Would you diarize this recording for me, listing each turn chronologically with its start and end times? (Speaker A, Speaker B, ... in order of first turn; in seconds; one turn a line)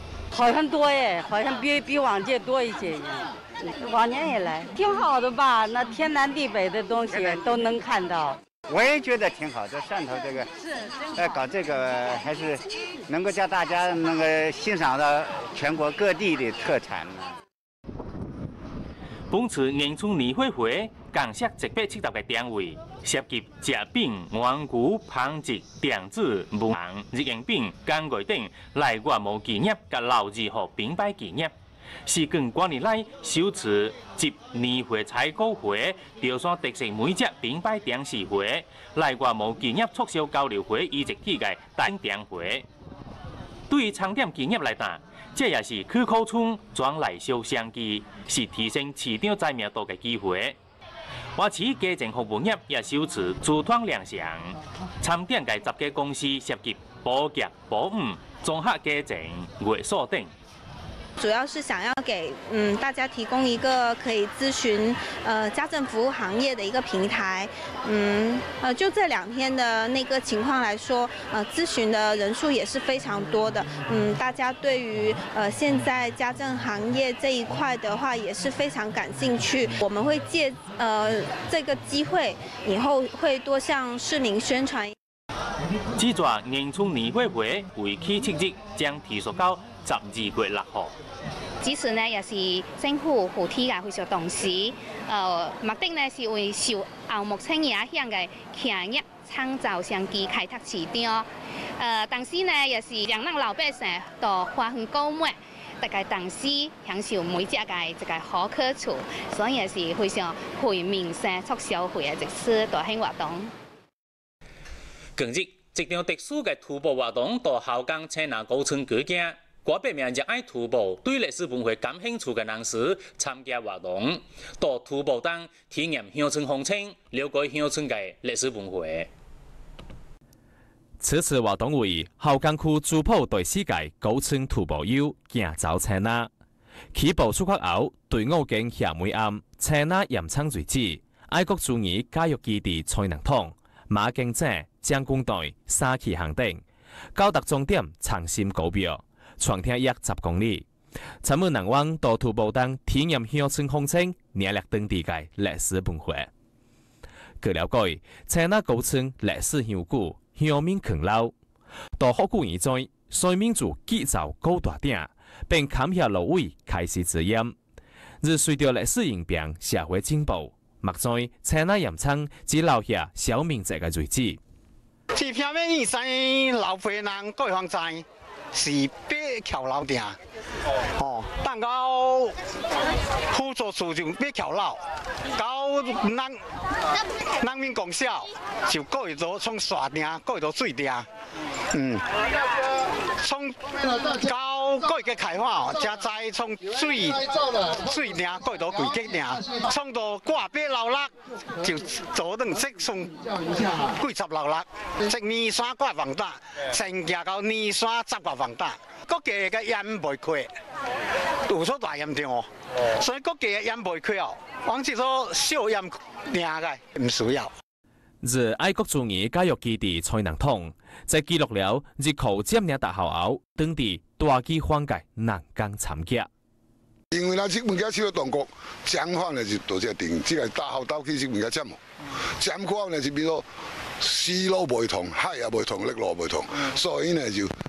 Speaker A: 0.3-8.4
Speaker B: 7.1-7.5
Speaker B: 8.7-10.5
Speaker B: 11.1-17.4
Speaker C: 19.3-31.5
Speaker C: 32.0-42.6
Speaker C: 43.7-50.6
Speaker C: 51.4-60.3
Speaker D: 61.2-84.9
Speaker C: 86.0-90.9
Speaker E: 91.6-101.3
Speaker E: 101.8-113.5
Speaker C: 115.2-129.1
Speaker F: 131.0-136.3
Speaker F: 136.9-146.6
Speaker F: 147.1-150.7
Speaker F: 151.2-156.3
Speaker F: 157.4-161.3
Speaker F: 162.0-167.5
Speaker F: 168.2-174.4
Speaker G: 175.1-180.2
Speaker G: 181.0-182.3
Speaker G: 183.3-184.8
Speaker G: 185.3-186.4
Speaker G: 187.4-191.1
Speaker G: 191.7-192.0
Speaker G: 193.2-203.2
Speaker G: 203.8-210.5
Speaker G: 211.5-217.5
Speaker F: 218.2-226.3
Speaker H: 227.1-231.8
Speaker H: 232.4-233.5
Speaker H: 234.0-237.5